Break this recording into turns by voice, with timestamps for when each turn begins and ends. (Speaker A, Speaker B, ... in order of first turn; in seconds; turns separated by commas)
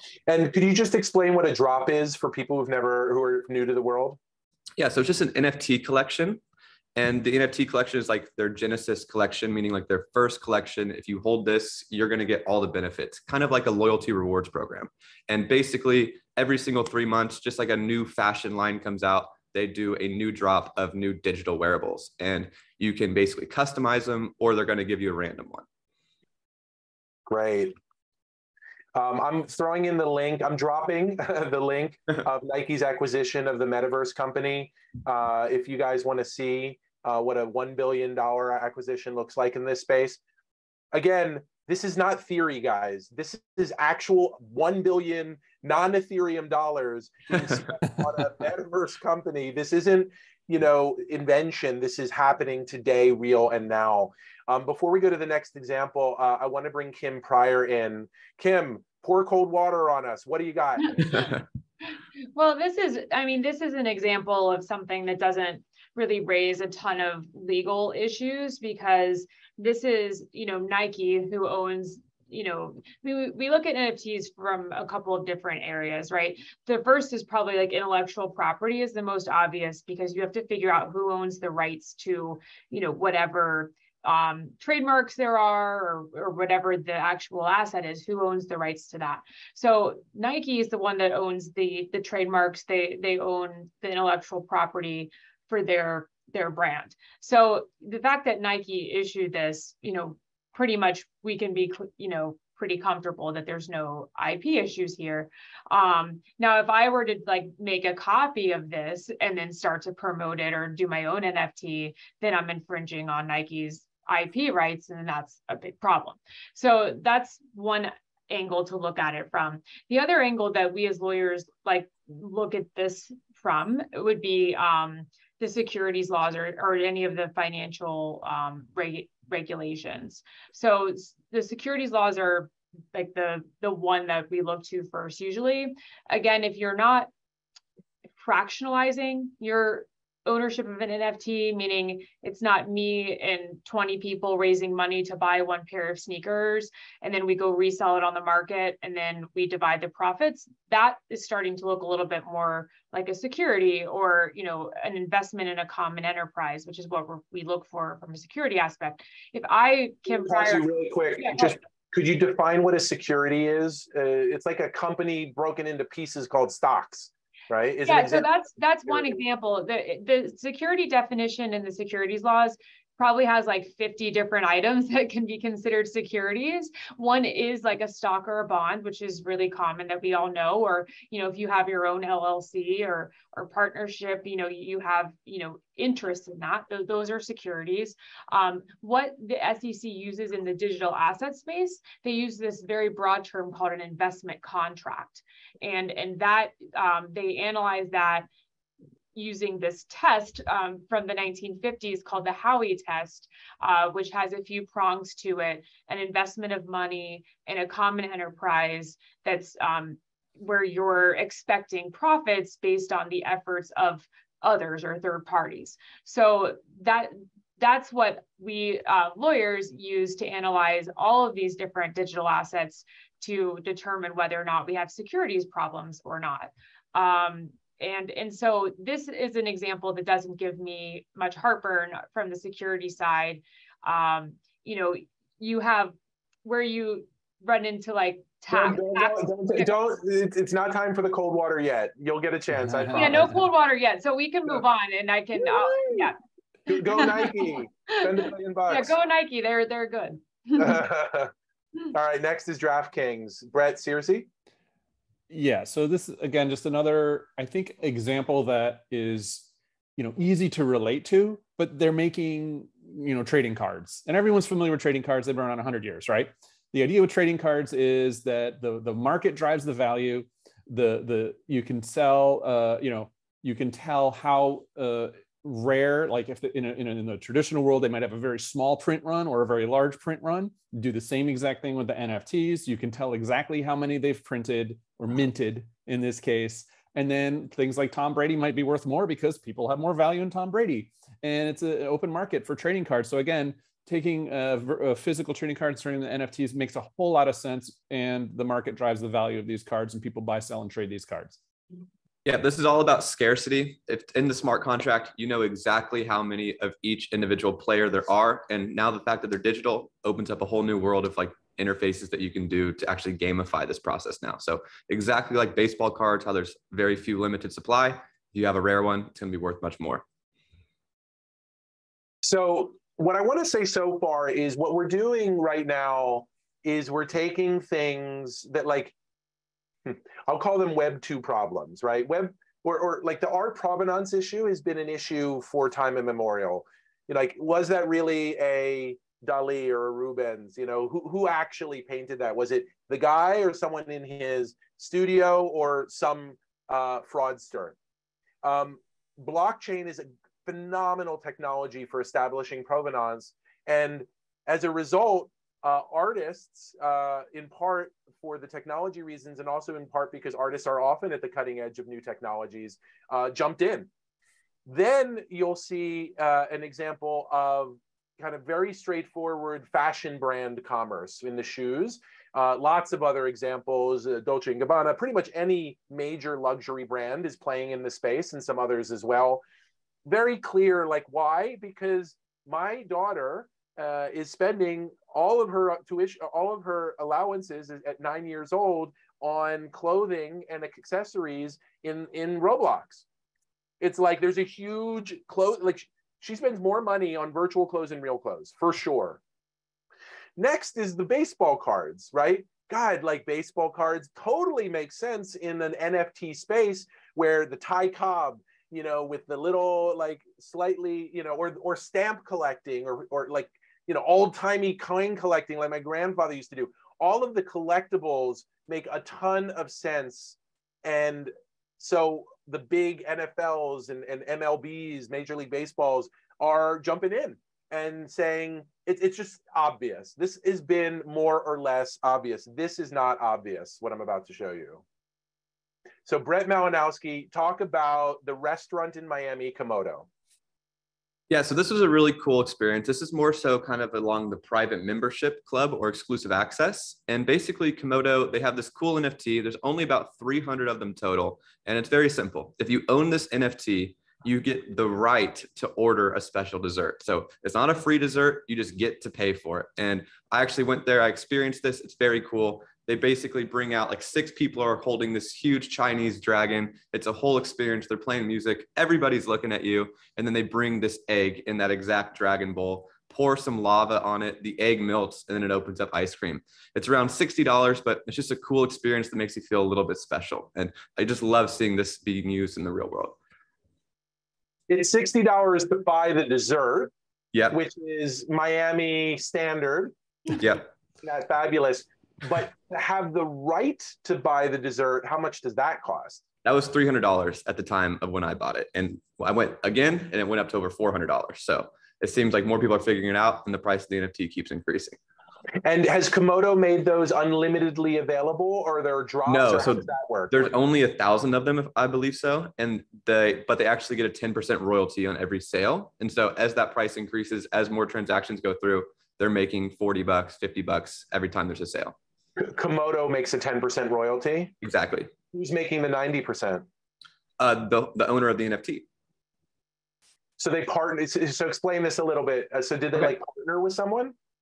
Speaker A: 0.3-4.2, Speaker B: 4.8-6.4, Speaker B: 7.0-25.6, Speaker A: 27.3-27.7, Speaker A: 28.9-40.2, Speaker A: 40.9-61.3, Speaker C: 61.0-61.3, Speaker C: 62.3-137.1, Speaker C: 138.2-161.6, Speaker A: 160.2-168.3, Speaker C: 167.8-198.2, Speaker A: 168.9-169.2, Speaker C: 199.1-239.7, Speaker A: 238.5-243.3, Speaker D: 242.7-243.3, Speaker C: 242.9-246.2, Speaker A: 245.3-246.1, Speaker A: 246.7-248.9, Speaker C: 246.7-250.8, Speaker A: 250.6-251.3, Speaker A: 251.9-254.3, Speaker D: 255.3-301.4, Speaker B: 302.2-320.0, Speaker A: 322.2-328.9, Speaker A: 329.9-347.8, Speaker A: 348.4-363.9, Speaker A: 364.6-379.4, Speaker A: 380.1-393.0, Speaker A: 393.8-399.2, Speaker A: 400.4-434.8, Speaker A: 436.1-440.1, Speaker B: 441.3-483.2, Speaker A: 484.7-486.9, Speaker A: 487.5-489.9, Speaker B: 490.3-490.7, Speaker A: 491.0-496.2, Speaker B: 496.4-505.0, Speaker A: 505.6-510.5, Speaker B: 509.3-522.0, Speaker A: 522.4-524.5, Speaker B: 524.6-525.1, Speaker A: 525.3-526.6, Speaker B: 527.4-528.9, Speaker A: 530.4-534.1